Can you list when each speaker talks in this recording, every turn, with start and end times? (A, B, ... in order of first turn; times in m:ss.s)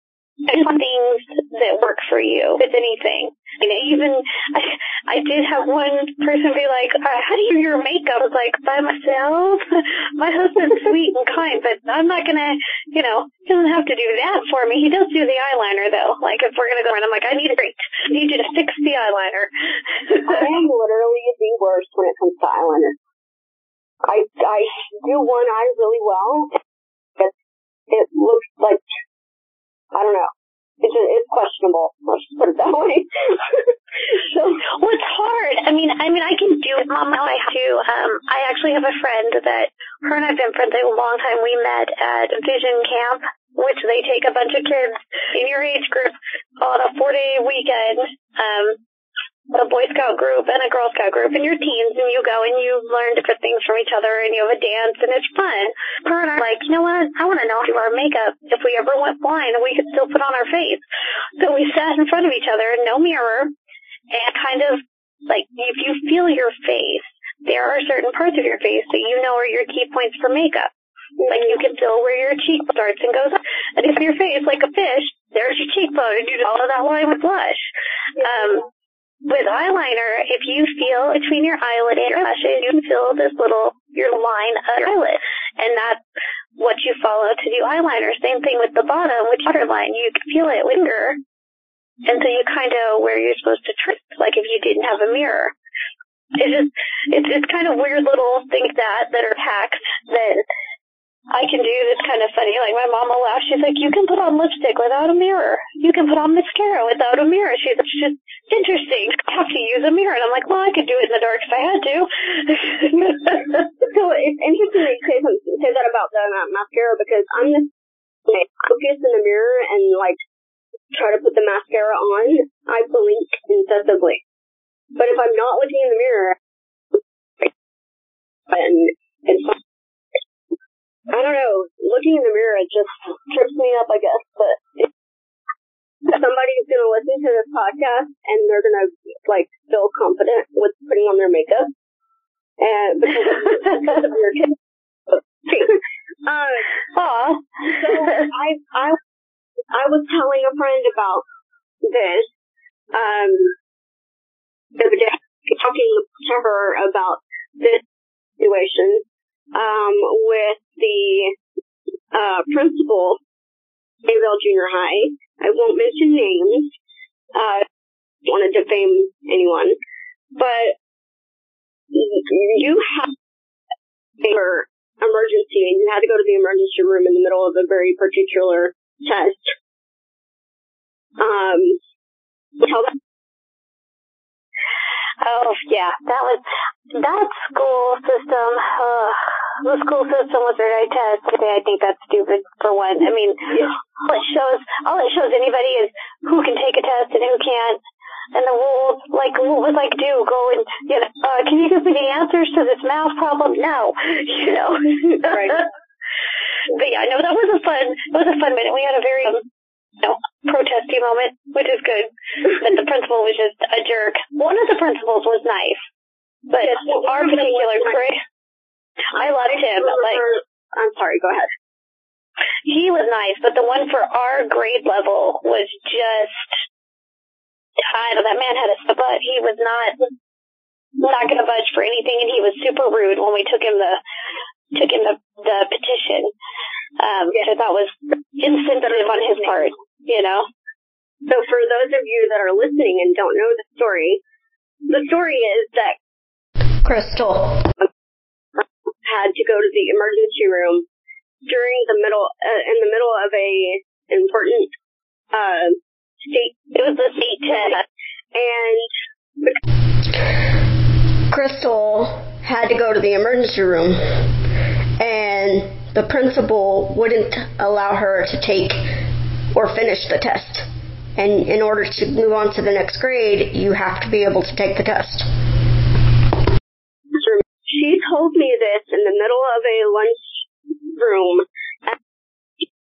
0:00.4-0:20.4 A
0:20.3-0:23.0 B
0:24.0-0:26.5 B
0:27.9-0:28.8 B
0:29.9-0:34.6 B
0:34.6-0:48.8 A
0:49.5-1:00.8 A
1:01.4-1:03.5 A
1:04.1-1:10.7 A
1:11.2-1:11.5 B
1:11.3-1:18.6 A
1:19.3-1:26.0 A
1:26.6-1:31.2 A
1:32.0-1:35.5 A
1:36.4-1:40.4 A
1:41.3-1:53.6 A
1:53.8-1:57.7 B
1:58.3-2:00.2 B
2:00.9-2:04.2 B
2:05.0-2:06.4 B
2:07.0-2:07.5 B
2:08.5-2:09.6 B
2:11.1-2:14.9 B
2:16.1-2:21.7 B
2:22.6-2:24.6 B
2:25.1-2:26.7 B
2:27.0-2:27.4 A
2:27.7-2:29.0 B
2:29.7-2:31.2 B
2:31.8-2:32.3 B
2:32.9-2:33.6 B
2:34.8-2:37.8 B
2:38.4-2:41.4 B
2:42.1-2:43.2 B
2:44.0-2:46.8 B
2:47.3-2:47.6 B
2:48.3-2:49.8 B
2:50.4-2:50.8 B
2:51.9-2:53.1 B
2:54.2-2:59.5 B
3:01.2-3:01.8 B
3:02.6-3:02.9 B
3:05.2-3:06.4 A
3:06.9-3:17.8 A
3:18.3-3:25.6 A
3:26.7-3:29.4 A
3:30.0-3:35.8 A
3:36.5-3:38.2 A
3:36.6-3:38.0 B
3:39.1-3:40.2 A
3:39.8-3:41.5 B
3:42.7-3:46.5 A
3:47.9-3:50.0 A
3:51.0-3:54.0 A
3:54.7-3:56.3 A
3:57.0-4:00.5 A
3:58.9-3:59.7 B
4:01.3-4:04.2 B
4:04.9-4:06.0 B
4:06.8-4:07.7 C
4:08.6-4:10.9 B
4:11.5-4:14.7 B
4:15.3-4:16.6 B
4:16.7-4:17.8 A
4:18.3-4:18.9 B
4:21.3-4:24.3 C
4:25.0-4:29.0 C
4:29.5-4:35.3 C
4:37.1-4:42.0 B